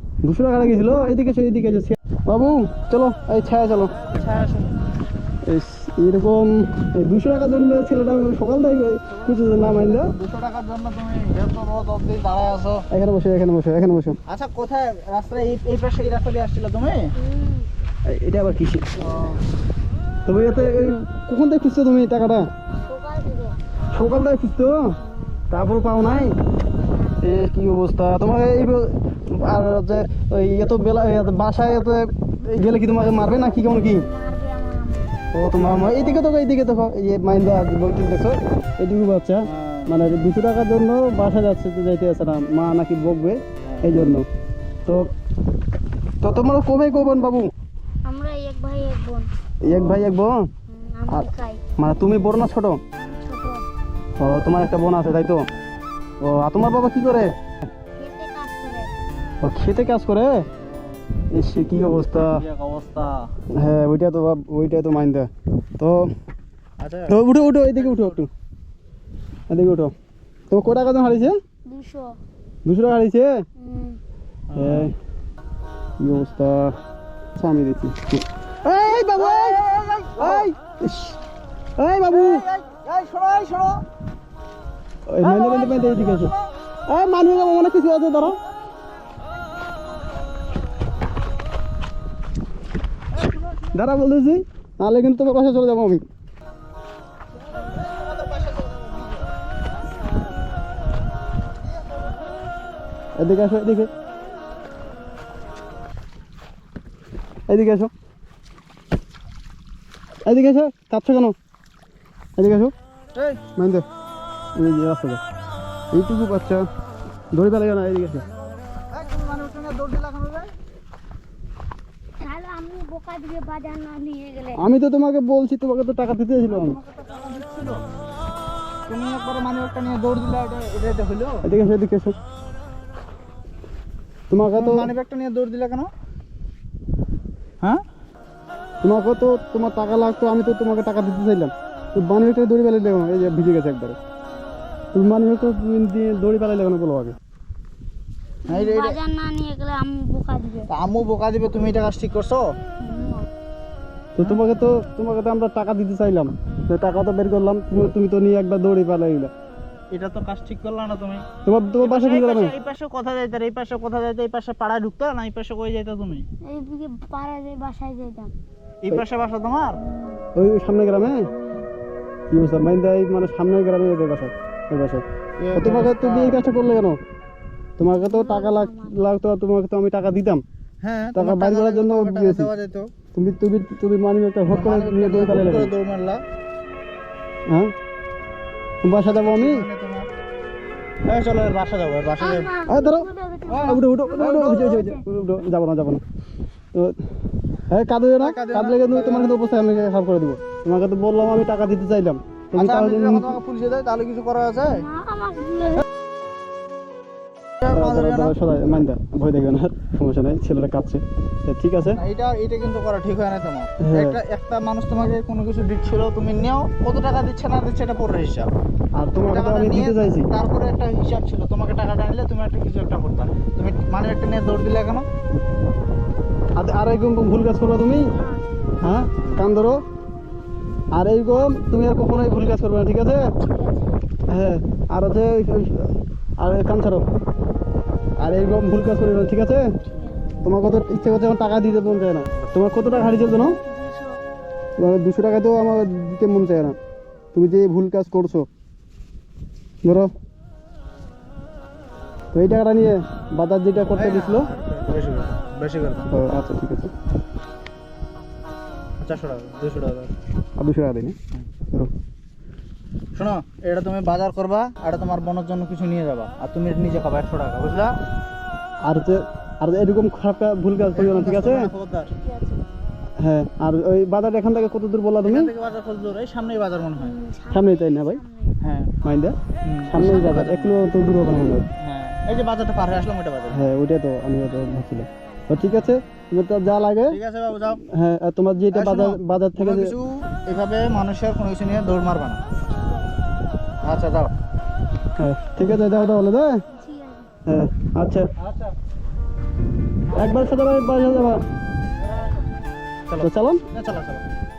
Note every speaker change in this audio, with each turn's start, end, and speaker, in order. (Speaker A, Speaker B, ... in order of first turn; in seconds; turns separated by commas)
Speaker A: 0.2-3.9, Speaker B: 4.0-4.8, Speaker A: 5.5-10.1, Speaker B: 9.2-12.9, Speaker A: 12.9-14.2, Speaker B: 14.3-17.2, Speaker C: 17.2-17.7, Speaker A: 18.1-18.9, Speaker B: 19.0-19.4, Speaker A: 20.3-22.5, Speaker C: 22.7-23.6, Speaker A: 23.9-25.0, Speaker C: 25.0-25.4, Speaker A: 25.5-26.3, Speaker C: 26.8-27.2, Speaker A: 27.2-34.0, Speaker C: 33.9-35.2, Speaker A: 35.3-44.3, Speaker B: 35.5-36.2, Speaker B: 39.5-40.0, Speaker B: 43.6-43.9, Speaker A: 44.9-45.1, Speaker A: 46.2-47.5, Speaker C: 48.0-49.3, Speaker A: 49.6-50.5, Speaker C: 50.7-51.6, Speaker A: 51.1-52.8, Speaker C: 53.0-53.7, Speaker A: 54.2-55.5, Speaker A: 56.2-57.3, Speaker C: 58.0-58.9, Speaker A: 59.4-60.5, Speaker B: 60.6-61.0, Speaker A: 61.3-62.4, Speaker B: 62.3-63.3, Speaker A: 63.5-66.1, Speaker B: 66.8-68.2, Speaker A: 67.1-68.3, Speaker A: 69.5-69.9, Speaker A: 70.5-71.4, Speaker C: 71.7-72.2, Speaker A: 72.7-73.4, Speaker C: 73.6-74.0, Speaker B: 74.5-74.9, Speaker A: 74.6-74.9, Speaker A: 76.0-76.8, Speaker A: 77.4-79.6, Speaker B: 78.8-80.5, Speaker A: 80.2-81.2, Speaker A: 81.8-82.4, Speaker B: 82.1-83.8, Speaker A: 85.1-86.3, Speaker B: 85.2-86.5, Speaker A: 86.9-88.4, Speaker A: 93.7-96.0, Speaker B: 97.5-99.3, Speaker A: 103.2-103.9, Speaker A: 107.5-107.9, Speaker A: 110.2-111.3, Speaker A: 112.4-112.7, Speaker B: 113.1-113.4, Speaker A: 113.5-113.9, Speaker A: 114.6-115.2, Speaker A: 115.9-116.7, Speaker A: 117.3-118.2, Speaker B: 118.9-120.5, Speaker C: 122.2-124.6, Speaker A: 124.6-126.8, Speaker B: 126.6-127.8, Speaker B: 128.9-131.4, Speaker A: 131.4-132.2, Speaker A: 134.3-134.9, Speaker B: 134.5-135.9, Speaker A: 138.8-144.0, Speaker A: 144.9-147.2, Speaker C: 148.5-150.7, Speaker B: 148.5-149.0, Speaker B: 150.7-152.6, Speaker C: 152.8-153.3, Speaker A: 154.2-159.3, Speaker B: 159.9-161.3, Speaker A: 161.5-162.6, Speaker B: 161.8-166.3, Speaker C: 166.5-168.3, Speaker B: 168.8-169.8, Speaker C: 169.9-170.3, Speaker A: 170.3-171.3, Speaker C: 171.3-171.7, Speaker A: 172.3-175.0, Speaker B: 175.4-176.4, Speaker A: 175.6-177.0, Speaker A: 177.8-180.4, Speaker C: 177.9-179.0, Speaker B: 180.8-182.9, Speaker A: 181.2-182.5, Speaker A: 183.1-185.7, Speaker B: 184.5-186.2, Speaker A: 187.5-187.7, Speaker A: 188.8-189.7, Speaker B: 189.0-190.1, Speaker B: 191.1-192.5, Speaker C: 192.2-195.0, Speaker A: 192.7-196.0, Speaker B: 193.5-194.9, Speaker A: 197.7-203.4, Speaker B: 198.2-199.4, Speaker B: 202.6-204.9, Speaker C: 204.6-205.9, Speaker B: 207.6-208.4, Speaker A: 207.7-212.0, Speaker B: 211.9-218.5, Speaker A: 213.8-214.2, Speaker A: 219.0-220.3, Speaker B: 219.2-225.1, Speaker A: 226.6-228.1, Speaker A: 228.8-229.8, Speaker A: 230.9-233.3, Speaker C: 233.4-234.0, Speaker A: 234.3-237.1, Speaker A: 238.2-239.7, Speaker C: 239.8-240.2, Speaker A: 240.4-243.6, Speaker C: 243.6-244.2, Speaker A: 244.8-246.8, Speaker A: 247.3-248.5, Speaker A: 249.8-250.1, Speaker A: 252.3-254.5, Speaker B: 253.9-256.1, Speaker A: 256.1-256.9, Speaker B: 259.0-260.1, Speaker A: 260.6-261.2, Speaker B: 263.1-268.0, Speaker A: 268.9-271.7, Speaker B: 270.9-272.1, Speaker C: 272.2-272.6, Speaker A: 273.2-275.5, Speaker B: 275.2-277.2, Speaker C: 277.0-278.6, Speaker A: 277.5-278.2, Speaker B: 278.6-279.0, Speaker A: 279.0-279.4, Speaker B: 279.6-280.9, Speaker A: 279.9-281.7, Speaker B: 281.8-283.6, Speaker A: 283.5-287.2, Speaker B: 287.1-287.8, Speaker A: 287.8-289.9, Speaker B: 288.7-292.4, Speaker C: 292.8-293.2, Speaker B: 293.8-294.3, Speaker A: 295.2-296.6, Speaker C: 296.7-297.3, Speaker A: 297.5-298.3, Speaker B: 298.4-298.7, Speaker A: 300.1-301.4, Speaker B: 302.0-302.4, Speaker B: 303.1-304.2, Speaker A: 303.2-303.6